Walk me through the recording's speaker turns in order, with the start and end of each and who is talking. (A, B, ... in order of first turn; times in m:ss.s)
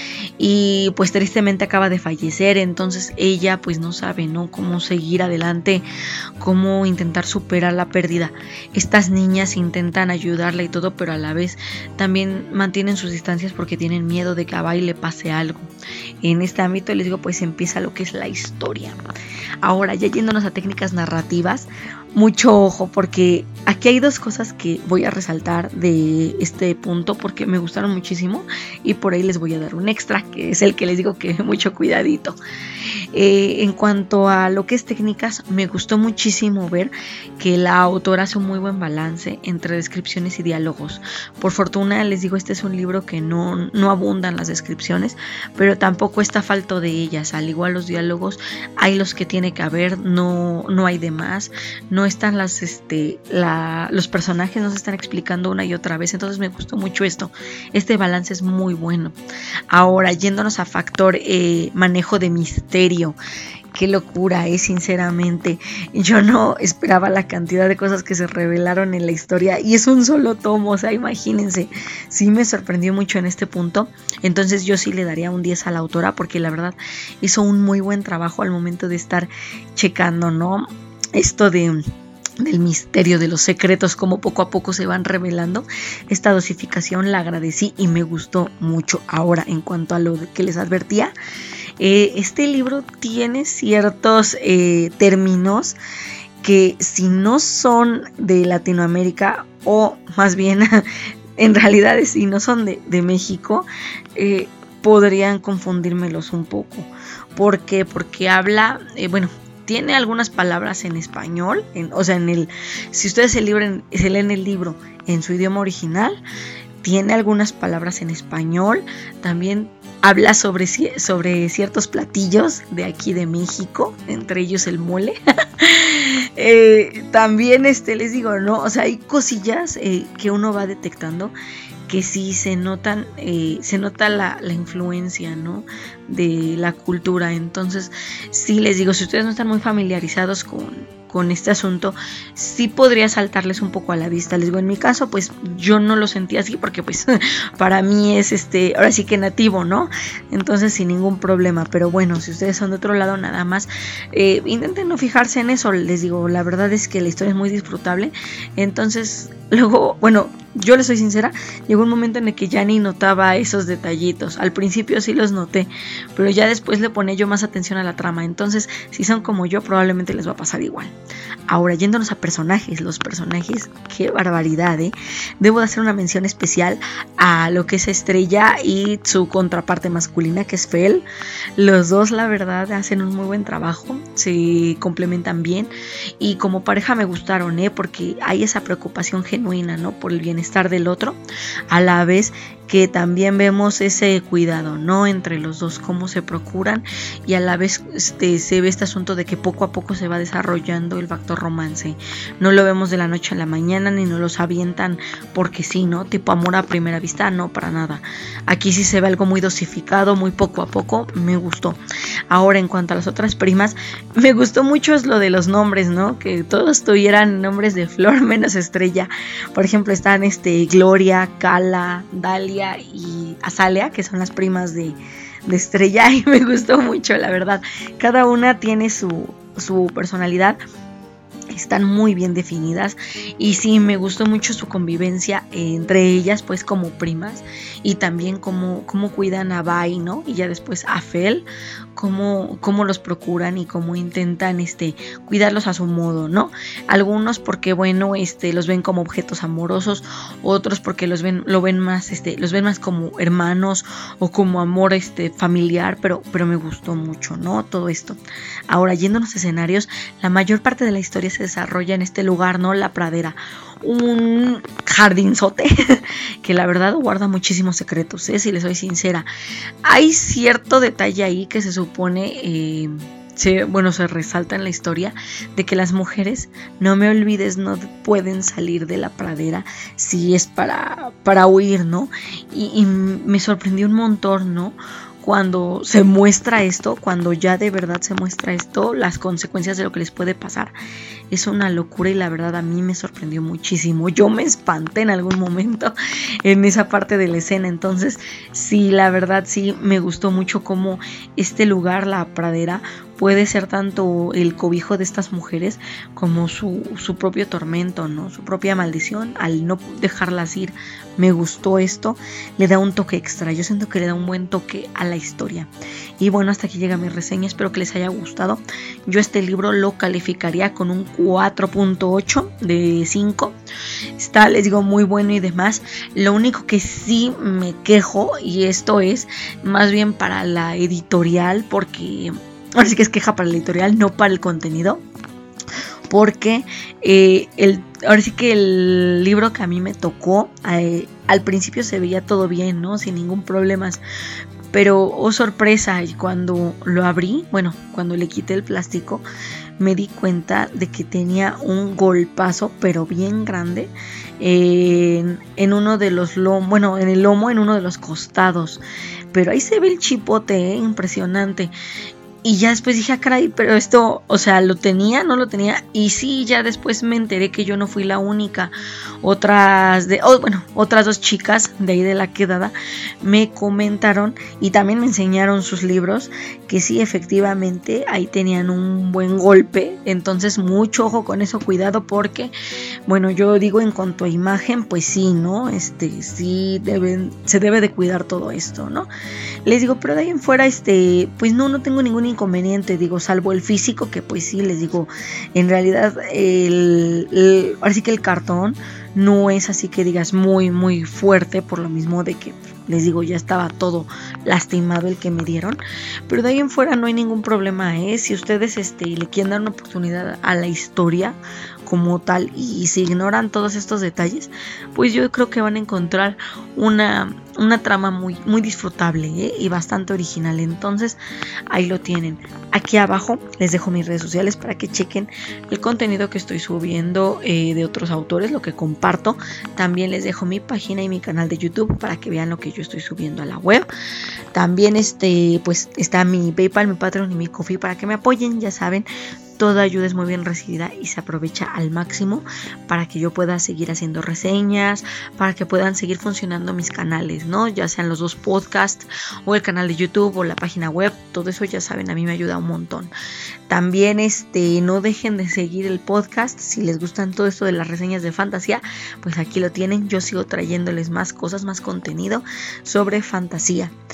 0:00.4-0:05.8 A
0:06.4-0:15.7 A
0:16.2-0:19.0 A
0:19.6-0:32.4 A
0:33.1-0:59.2 A
0:59.7-1:03.2 A
1:03.7-1:21.8 A
1:22.4-1:31.1 A
1:31.8-1:35.8 A
1:36.4-1:40.8 A
1:41.4-1:56.2 A
1:56.8-2:11.3 A
2:11.9-2:50.9 A
2:51.5-3:01.0 A
3:01.6-3:11.2 A
3:11.7-3:31.8 A
3:32.3-3:50.6 A
3:51.5-4:29.2 A
4:29.8-4:50.7 A
4:51.3-5:23.6 A
5:24.2-5:35.0 A
5:36.1-5:44.0 A
5:44.7-5:49.2 A
5:49.8-6:01.7 A
6:02.4-6:22.5 A
6:23.1-6:29.1 A
6:29.6-7:01.2 A
7:01.7-7:13.9 A
7:14.5-7:33.1 A
7:33.7-7:43.9 A